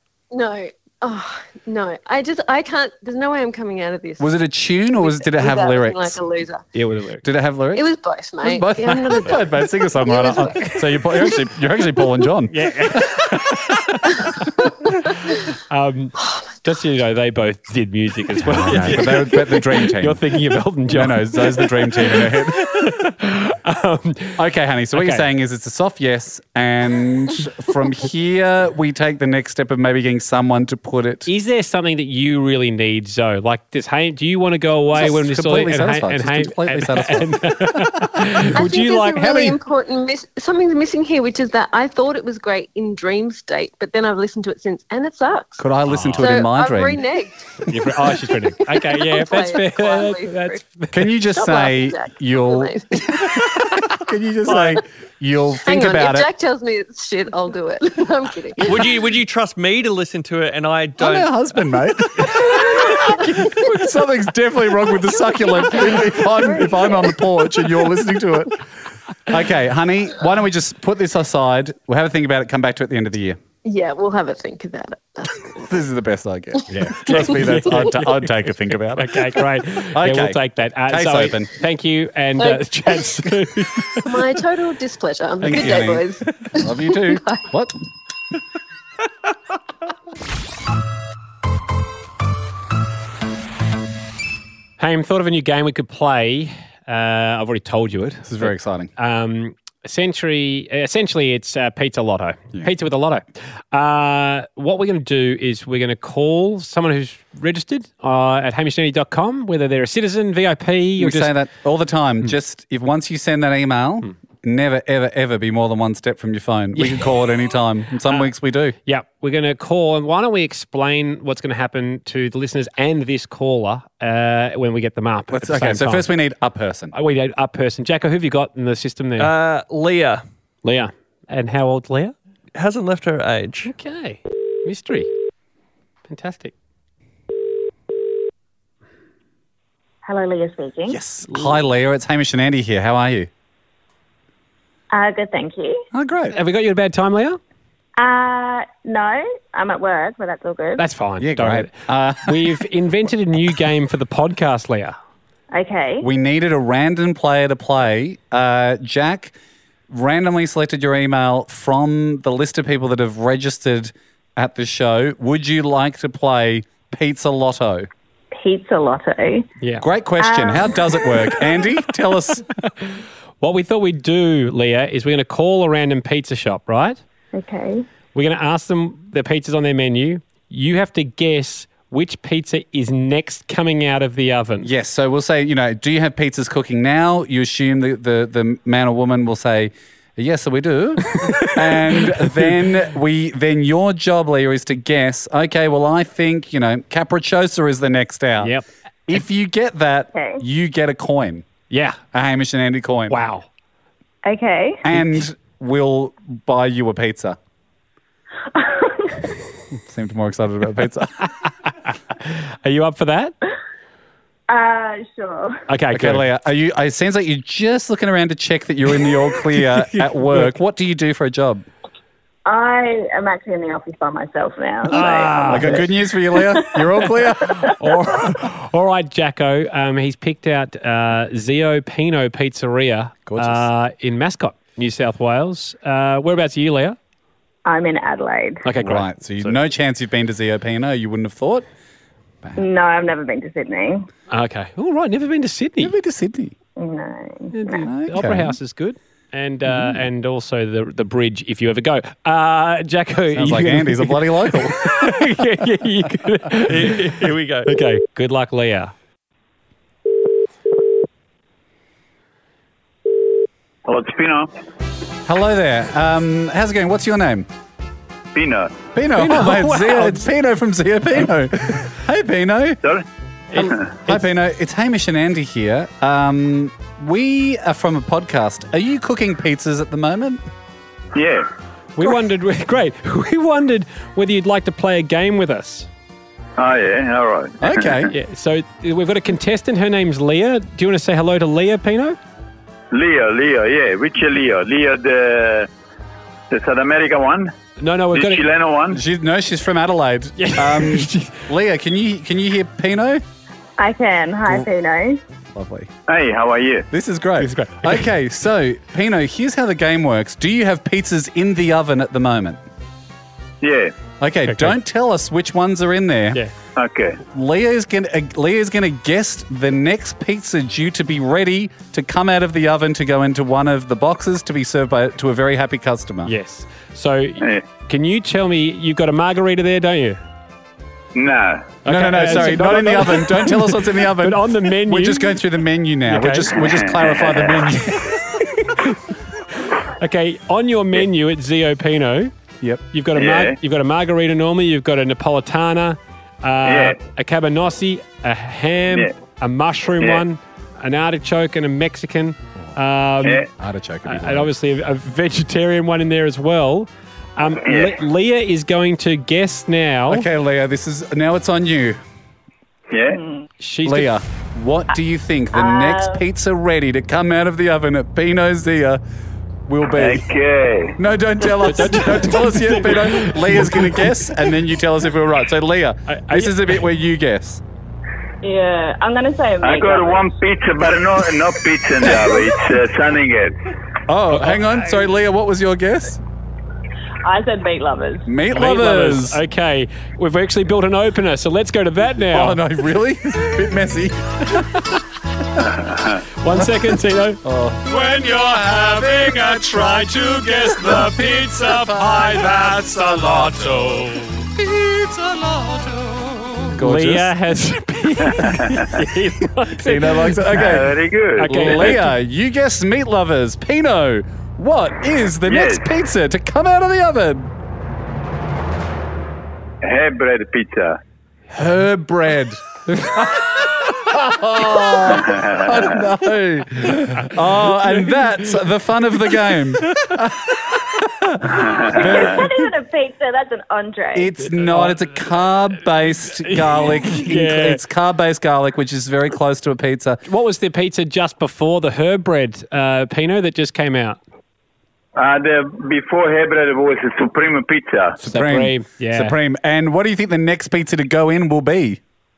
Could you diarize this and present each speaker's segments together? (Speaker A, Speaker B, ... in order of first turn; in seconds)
Speaker A: 0.3-4.4, 4.9-6.6, 7.7-11.0, 38.5-45.6, 46.2-47.7, 48.7-50.6, 51.3-53.4, 55.6-58.9, 62.4-63.5, 65.5-67.2, 73.6-75.6, 82.4-83.0, 84.0-87.5
Speaker B: 4.2-6.2, 7.2-7.8, 8.4-13.2, 18.4-20.2, 20.9-23.0, 24.4-31.3, 34.9-38.2, 45.6-47.0, 50.9-56.3, 61.0-68.7, 69.2-73.4, 75.5-81.5, 85.4-87.8, 98.2-98.9, 111.0-118.7, 125.3-126.9, 140.9-143.3, 145.9-146.4, 151.2-152.6, 156.0-159.3, 159.9-167.9, 169.8-172.4, 184.6-198.6, 199.1-201.5, 202.1-203.2, 204.8-207.4, 209.7-211.3, 215.9-221.7, 225.0-228.1, 233.3-233.7, 238.8-241.7, 245.8-246.5, 247.8-248.6, 249.7-250.0, 253.3-255.2, 265.2-267.5, 268.9-272.8, 273.6-280.4, 287.6-288.1, 298.9-303.2, 305.5-305.9, 306.9-312.6, 314.2-316.4, 317.3-326.3, 331.9-338.2, 353.6-354.5, 360.1-362.0, 363.8-369.0, 369.7-370.3, 371.0-377.6, 384.1-386.2, 388.2-389.4, 392.3-394.9, 396.5-407.3, 409.8-417.5, 421.5-432.5, 434.1-440.2, 448.2-452.0
Speaker C: 6.7-7.2, 12.5-24.4, 24.9-25.2, 31.3-39.6, 45.9-46.3, 47.6-51.1, 76.7-78.3, 79.0-84.1, 94.8-111.3, 116.8-117.0, 118.8-126.1, 126.9-129.3, 130.6-132.1, 133.7-135.1, 136.1-136.5, 146.3-147.4, 150.8-151.7, 152.2-155.0, 172.8-177.0, 178.1-184.7, 191.2-192.5, 198.4-198.6, 201.7-202.0, 203.1-203.4, 211.8-213.3, 215.7-216.3, 219.6-220.5, 224.9-225.8, 227.5-237.0, 238.6-239.6, 244.3-245.9, 247.5-258.9, 269.1-270.3, 273.5-274.3, 281.9-285.9, 288.1-292.2, 297.8-298.5, 300.4-301.4, 307.4-308.1, 314.4-314.7, 326.2-330.2, 331.8-335.4, 336.1-336.6, 337.9-342.3, 342.9-353.5, 354.0-360.3, 363.6-364.2, 371.5-374.3, 376.1-376.8, 384.3-384.8, 388.5-392.6, 396.4-397.4, 398.8-404.4, 406.7-410.8, 411.4-412.1, 422.9-423.3, 427.9-428.2, 429.9-430.1, 434.4-435.1, 436.4-437.8, 440.2-444.2, 448.2-449.4
Speaker D: 58.6-61.4, 129.2-130.2, 132.5-133.7, 256.6-257.7
Speaker E: 140.0-141.0, 144.9-145.8, 148.0-150.8, 155.5-156.1, 168.3-169.4, 170.2-170.8, 177.3-177.8, 200.1-200.4, 204.2-204.8, 208.5-209.3, 214.5-215.6, 222.4-226.8, 237.7-238.6, 242.6-244.1, 246.8-247.8, 303.8-305.2, 365.5-366.2, 378.4-380.3, 387.2-388.3, 431.9-434.3
Speaker F: 263.9-264.5, 268.3-268.8, 281.1-281.5, 286.6-288.0, 292.9-295.7, 296.5-297.5, 298.1-299.0, 306.1-306.9, 313.6-313.9, 316.8-317.2, 331.1-331.7, 336.6-337.6, 343.1-343.6, 346.6-347.0, 357.6-358.0, 362.9-363.2, 369.9-370.9, 379.6-383.5, 395.8-396.2, 408.4-408.8, 410.5-411.9, 415.4-415.9, 419.8-421.0, 425.1-426.0, 431.5-432.2, 445.2-448.2